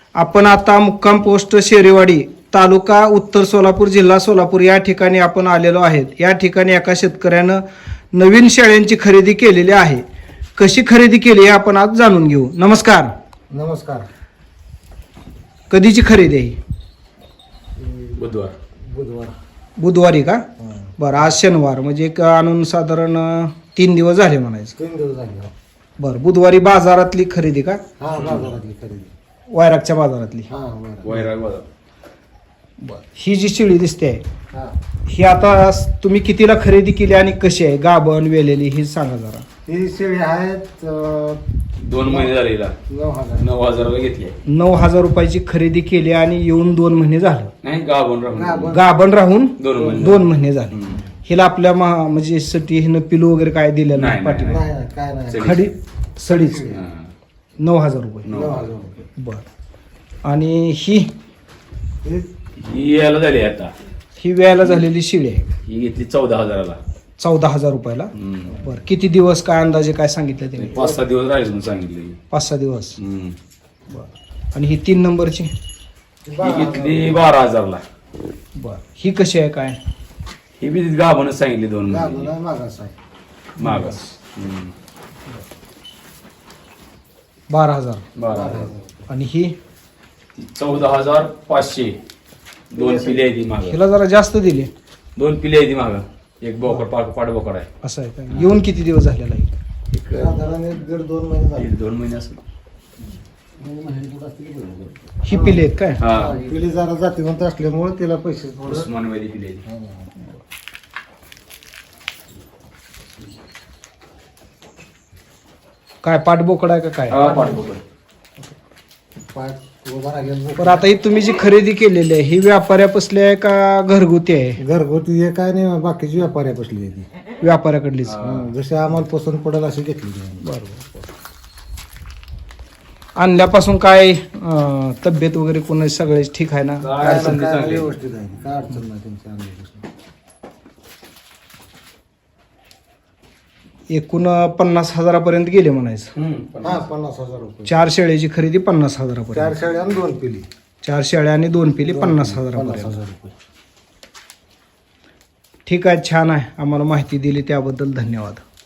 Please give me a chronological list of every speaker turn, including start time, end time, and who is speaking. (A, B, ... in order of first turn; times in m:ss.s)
0:00.2-0:07.6 A
0:08.1-0:10.0 A
0:10.6-0:13.1 A
0:13.5-0:14.1 B
0:15.7-0:16.6 A
0:17.8-0:18.2 B
0:18.2-0:18.5 C
0:18.8-0:19.3 B
0:19.8-0:20.4 A
0:20.6-0:21.0 B
0:21.0-0:24.8 A
0:24.8-0:25.5 B
0:26.0-0:27.8 A
0:28.0-0:29.1 B
0:28.2-0:28.6 C
0:29.5-0:30.5 A
0:30.5-0:31.2 B
0:31.0-0:31.6 C
0:32.8-0:34.2 A
0:35.0-0:39.4 A
0:39.6-0:41.4 B
0:41.8-0:42.8 C
0:42.0-0:42.3 B
0:42.9-0:43.4 B
0:43.4-0:44.4 C
0:44.4-0:47.5 A
0:47.6-0:48.8 C
0:48.3-0:48.9 B
0:48.7-0:50.7 A
0:49.6-0:51.0 C
0:51.2-0:54.6 A
0:53.9-0:54.7 C
0:54.4-0:55.6 B
0:55.3-0:55.7 C
0:55.4-0:56.7 A
0:56.4-0:56.8 B
0:56.7-0:57.1 C
0:57.6-0:58.3 A
0:58.2-0:58.7 C
0:58.3-0:59.0 B
0:59.2-0:59.4 A
1:00.2-1:01.1 A
1:02.0-1:02.3 B
1:02.6-1:03.7 C
1:04.2-1:05.5 A
1:05.6-1:06.8 C
1:07.2-1:10.9 A
1:08.1-1:08.6 C
1:10.6-1:12.2 C
1:12.3-1:13.0 A
1:13.0-1:13.4 C
1:13.9-1:15.5 A
1:16.2-1:17.2 B
1:16.4-1:17.8 C
1:18.6-1:19.8 A
1:20.6-1:22.3 C
1:21.9-1:22.9 B
1:23.6-1:24.7 C
1:23.6-1:24.0 A
1:27.5-1:28.0 A
1:28.2-1:28.7 C
1:28.3-1:29.0 B
1:29.1-1:29.5 A
1:30.4-1:32.0 C
1:32.7-1:33.8 C
1:32.7-1:33.3 B
1:33.6-1:34.7 A
1:35.2-1:37.7 C
1:37.8-1:39.5 A
1:39.9-1:40.4 C
1:40.1-1:41.7 B
1:41.6-1:42.4 C
1:43.6-1:48.9 B
1:45.2-1:46.0 A
1:46.0-1:46.4 C
1:48.6-1:49.6 C
1:49.7-1:50.1 B
1:56.0-1:57.2 A
1:57.1-1:57.8 C
1:57.2-1:57.5 B
1:59.2-2:01.0 B
2:00.6-2:04.6 A
2:04.6-2:07.1 B
2:07.4-2:08.2 A
2:08.0-2:08.5 C
2:08.2-2:10.4 B
2:10.4-2:11.1 A
2:13.2-2:16.9 A
2:16.8-2:17.9 C
2:17.0-2:19.9 B
2:23.9-2:26.1 A
2:26.1-2:26.9 C
2:26.6-2:27.7 B
2:27.6-2:29.6 A
2:29.3-2:30.5 B
2:30.8-2:33.0 A
2:31.8-2:33.3 B
2:35.7-2:38.4 A